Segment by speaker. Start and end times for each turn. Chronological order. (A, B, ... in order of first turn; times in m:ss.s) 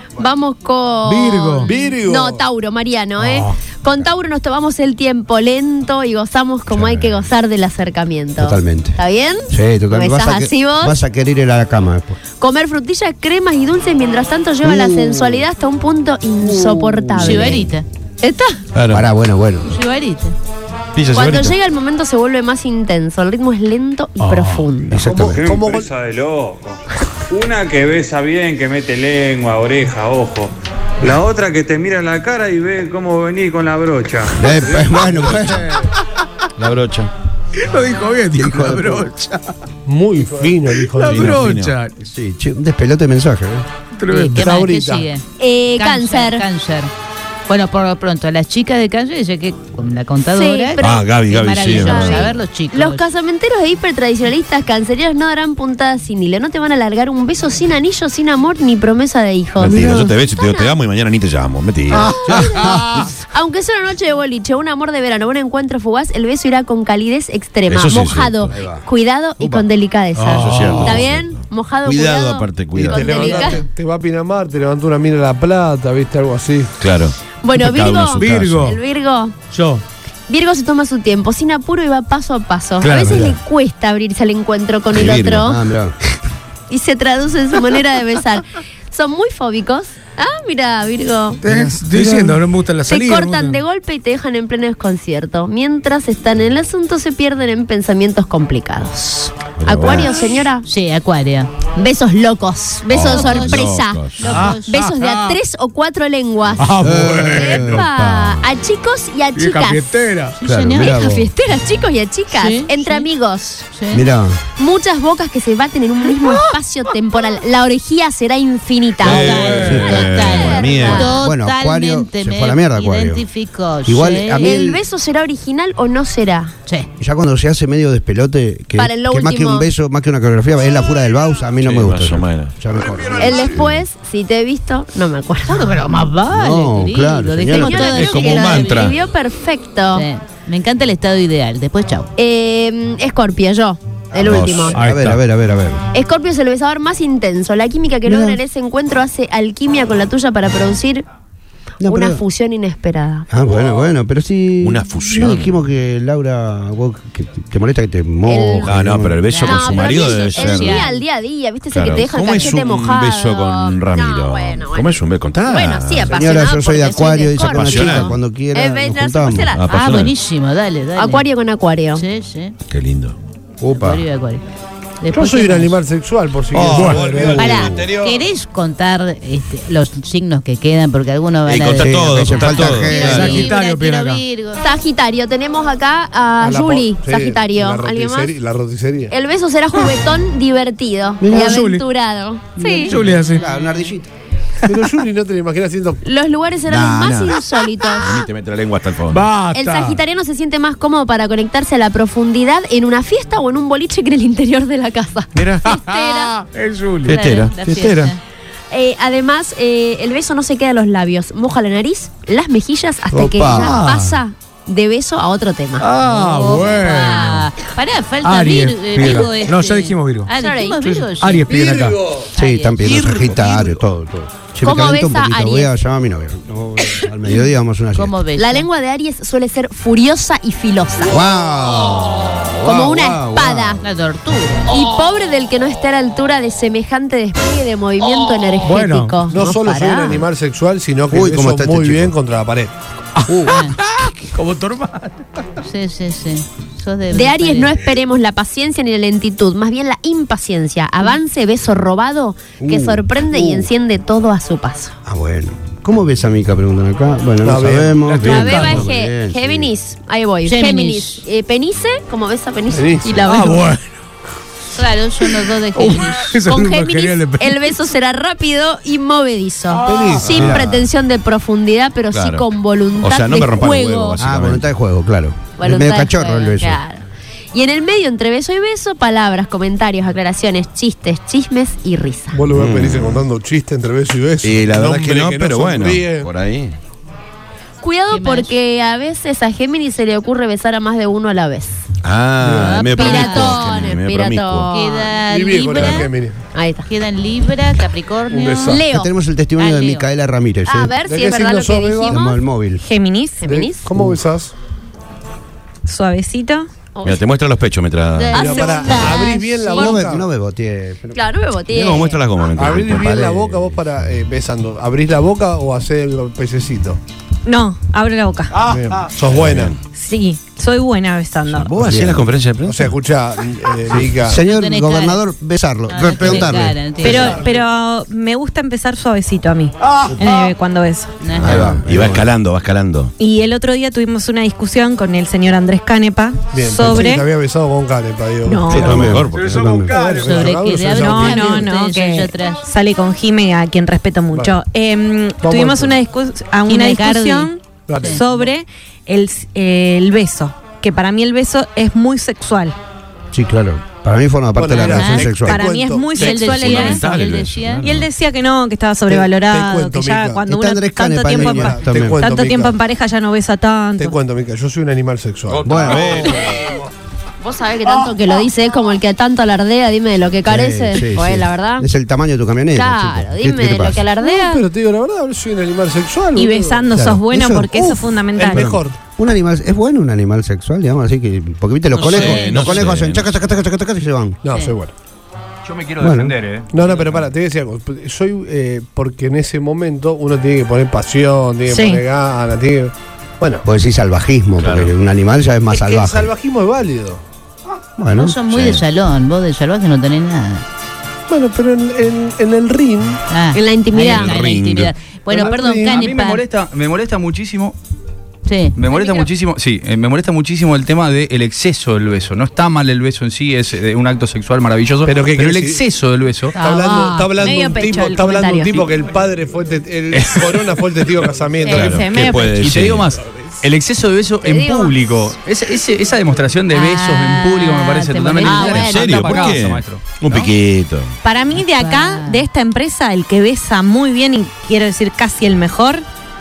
0:00.2-0:11.0 A
0:01.0-0:01.7 B
0:01.7-0:02.4 C
0:03.2-0:03.6 B
0:06.7-0:07.3 D
0:08.4-0:09.0 D
0:09.5-0:12.2 D
0:12.4-0:17.7 A
0:14.6-0:15.5 D
0:16.4-0:17.5 D
0:17.2-0:17.8 E
0:18.2-0:18.6 A
0:18.7-0:19.1 F
0:18.9-0:19.8 D
0:19.6-0:20.3 E
0:20.9-0:21.6 F
0:21.1-0:25.0 A
0:24.2-0:24.7 B
0:24.9-0:25.4 D
0:24.9-0:25.9 C
0:25.1-0:26.8 G
0:27.3-0:35.3 G
0:34.3-0:35.9 D
0:35.1-0:35.6 F
0:36.6-0:37.1 F
0:37.6-0:39.5 B
0:38.4-0:39.1 D
0:39.9-0:41.6 C
0:40.8-0:41.9 B
0:41.1-0:41.8 F
0:42.0-0:43.7 D
0:44.0-0:44.6 B
0:44.1-0:45.2 E
0:44.3-0:45.1 C
0:45.4-0:46.4 A
0:45.8-0:46.9 E
0:47.5-0:53.0 E
0:50.3-1:00.7 A
0:50.8-0:52.3 F
0:59.6-1:02.2 F
1:01.9-1:03.1 B
1:01.9-1:13.6 A
1:02.3-1:03.0 D
1:07.7-1:08.6 F
1:08.5-1:08.8 D
1:09.4-1:11.1 B
1:10.3-1:13.5 F
1:12.8-1:16.7 C
1:16.8-1:18.8 F
1:17.4-1:19.4 A
1:18.2-1:18.8 B
1:19.5-1:19.8 B
1:20.3-1:25.6 A
1:22.8-1:23.3 B
1:22.9-1:23.4 D
1:24.9-1:25.6 F
1:25.3-1:26.0 D
1:26.7-1:31.4 A
1:31.4-1:33.6 B
1:31.5-1:32.4 D
1:32.9-1:40.6 A
1:39.6-1:40.1 D
1:39.7-1:40.0 F
1:40.6-1:41.5 E
1:41.8-1:44.1 A
1:42.9-1:44.3 F
1:43.0-1:44.8 E
1:44.2-1:45.4 B
1:44.7-1:49.9 A
1:46.6-1:47.9 B
1:46.8-1:48.4 D
1:49.4-1:50.4 B
1:50.4-1:51.3 D
1:50.4-1:51.0 E
1:50.6-1:53.7 A
1:52.3-1:53.1 E
1:53.7-1:54.0 E
1:53.9-1:54.4 D
1:54.6-2:01.2 A
1:56.2-1:56.5 B
1:59.0-2:01.2 F
1:59.0-2:04.6 E
1:59.3-1:59.9 B
1:59.7-2:00.1 D
2:00.9-2:03.3 D
2:03.8-2:04.8 D
2:04.4-2:06.6 A
2:07.0-2:13.8 D
2:08.8-2:09.7 A
2:11.6-2:12.6 F
2:13.2-2:15.7 A
2:15.5-2:18.9 E
2:16.3-2:18.0 D
2:17.5-2:20.0 A
2:17.8-2:19.0 F
2:19.9-2:22.1 E
2:22.2-2:24.8 A
2:24.1-2:25.8 D
2:24.7-2:25.2 B
2:25.9-2:31.1 A
2:28.0-2:28.4 D
2:31.8-2:32.2 D
2:31.8-2:33.3 A
2:33.3-2:39.2 D
2:34.6-2:35.6 F
2:38.3-2:38.7 A
2:38.6-2:40.9 F
2:39.3-2:41.0 E
2:39.4-2:50.0 A
2:41.7-2:46.2 F
2:46.1-2:49.6 D
2:47.4-2:48.2 F
2:49.5-2:50.1 F
2:49.7-2:51.3 E
2:51.0-2:52.0 A
2:51.9-2:52.5 E
2:52.7-2:53.2 F
2:53.6-2:54.1 D
2:53.7-2:54.4 E
2:55.0-2:55.8 E
2:55.1-2:58.1 C
2:56.5-2:58.2 F
2:56.7-2:57.2 B
2:57.4-3:04.6 E
3:01.5-3:03.5 F
3:01.8-3:03.5 D
3:02.9-3:04.2 B
3:04.6-3:08.3 A
3:06.4-3:09.1 C
3:09.1-3:13.0 A
3:11.2-3:11.7 D
3:11.3-3:11.8 B
3:12.6-3:13.3 E
3:12.8-3:13.4 B
3:13.3-3:14.1 D
3:14.6-3:16.0 C
3:16.0-3:18.3 A
3:16.7-3:19.3 F
3:19.1-3:20.0 B
3:19.5-3:26.3 A
3:25.3-3:25.8 F
3:25.7-3:27.2 B
3:27.0-3:28.2 E
3:27.1-3:28.1 F
3:27.8-3:28.1 B
3:28.7-3:35.9 A
3:33.1-3:33.8 D
3:33.4-3:34.2 B
3:35.8-3:37.5 B
3:36.0-3:41.6 E
3:38.2-3:42.2 B
3:40.4-3:40.8 A
3:42.3-3:48.2 D
3:42.4-3:43.0 E
3:42.8-3:43.7 B
3:44.6-3:45.7 A
3:48.0-3:48.7 E
3:48.4-3:51.2 A
3:51.0-3:53.8 D
3:52.6-3:53.8 A
3:53.8-3:54.7 E
3:54.7-4:00.3 A
3:58.6-3:59.2 B
3:59.3-4:02.8 C
4:01.1-4:02.1 D
4:03.2-4:05.2 B
4:03.5-4:03.8 E
4:05.6-4:07.8 E
4:07.1-4:15.0 A
4:12.6-4:13.7 D
4:15.0-4:19.7 D
4:17.4-4:18.2 C
4:18.2-4:23.7 A
4:18.2-4:18.9 B
4:20.4-4:21.2 E
4:22.7-4:23.2 C
4:23.2-4:23.9 B
4:24.8-4:26.4 E
4:25.8-4:27.7 B
4:26.5-4:34.2 A
4:29.8-4:30.4 B
4:29.8-4:30.8 C
4:30.4-4:30.8 F
4:32.1-4:34.7 F
4:34.2-4:36.8 D
4:35.6-4:42.4 A
4:42.3-4:46.3 C
4:42.5-4:43.2 F
4:44.4-4:46.8 F
4:47.8-4:51.7 A
4:48.1-4:48.5 E
4:52.0-4:54.7 F
4:52.5-4:52.8 C
4:52.6-4:53.8 E
4:52.7-4:55.1 A
4:54.7-4:56.1 E
4:55.2-4:56.4 C
4:55.8-4:56.0 F
4:56.5-4:56.9 A
4:56.8-4:58.7 E
4:58.3-4:58.9 C
4:58.6-4:59.1 A
4:58.9-5:01.0 D
4:59.6-5:00.0 E
5:00.7-5:02.4 A
5:01.0-5:02.2 C
5:02.1-5:02.8 D
5:02.8-5:03.5 H
5:03.4-5:03.9 A
5:03.4-5:04.5 C
5:05.8-5:06.7 H
5:07.0-5:07.2 A
5:07.0-5:08.7 F
5:08.2-5:09.4 E
5:08.3-5:10.0 A
5:08.3-5:10.2 C
5:09.7-5:11.3 D
5:11.1-5:12.2 A
5:11.7-5:13.2 F
5:12.6-5:17.0 C
5:13.0-5:13.8 D
5:17.4-5:18.6 H
5:18.6-5:19.1 B
5:18.6-5:19.8 C
5:19.3-5:19.8 F
5:19.9-5:21.8 H
5:21.4-5:23.0 F
5:21.8-5:22.3 D
5:22.6-5:24.4 C
5:23.9-5:27.0 D
5:24.4-5:25.2 E
5:25.9-5:27.4 E
5:27.0-5:31.2 H
5:27.1-5:27.6 C
5:27.1-5:27.4 B
5:29.8-5:30.5 B
5:31.2-5:31.8 E
5:31.3-5:32.3 D
5:31.4-5:33.1 F
5:33.2-5:37.3 H
5:36.5-5:41.8 C
5:38.4-5:38.9 H
5:38.7-5:39.9 F
5:38.7-5:40.0 D
5:39.0-5:40.5 B
5:40.2-5:42.6 E
5:40.9-5:52.8 H
5:44.3-5:44.6 C
5:45.4-5:46.0 C
5:46.7-5:48.2 E
5:47.9-5:48.5 C
5:53.3-5:55.7 D
5:54.6-5:57.0 C
5:54.7-5:55.3 E
5:55.5-5:57.0 H
5:56.1-5:57.9 E
5:56.5-5:58.1 F
5:57.8-6:04.1 H
5:59.1-6:00.5 C
6:00.5-6:02.2 D
6:01.2-6:02.8 C
6:04.0-6:06.0 C
6:05.5-6:06.8 F
6:05.6-6:06.6 D
6:07.4-6:11.9 A
6:10.4-6:14.1 D
6:12.7-6:14.6 A
6:14.2-6:17.2 C
6:16.4-6:18.7 H
6:16.9-6:24.4 D
6:17.8-6:19.0 C
6:21.9-6:22.9 E
6:22.0-6:23.4 F
6:24.4-6:24.9 C
6:25.6-6:27.2 I
6:26.0-6:26.4 D
6:26.7-6:33.7 C
6:31.7-6:32.0 H
6:33.6-6:36.3 D
6:34.6-6:34.9 F
6:35.7-6:37.2 C
6:38.0-6:38.4 D
6:38.1-6:40.6 E
6:38.5-6:38.8 F
6:41.3-6:43.2 C
6:43.3-6:46.4 E
6:43.5-6:44.4 A
6:44.0-6:44.9 F
6:45.3-6:46.0 C
6:45.9-6:47.8 I
6:48.5-6:48.8 E
6:48.8-6:56.6 I
6:55.0-6:55.8 C
6:56.6-7:02.2 C
6:56.6-6:58.8 A
6:57.2-6:58.6 H
7:00.1-7:00.5 F
7:01.6-7:03.1 F
7:01.7-7:02.6 H
7:02.5-7:10.5 I
7:04.4-7:05.0 A
7:06.7-7:09.5 A
7:08.4-7:09.0 E
7:08.7-7:11.2 F
7:11.2-7:16.0 H
7:11.5-7:12.5 E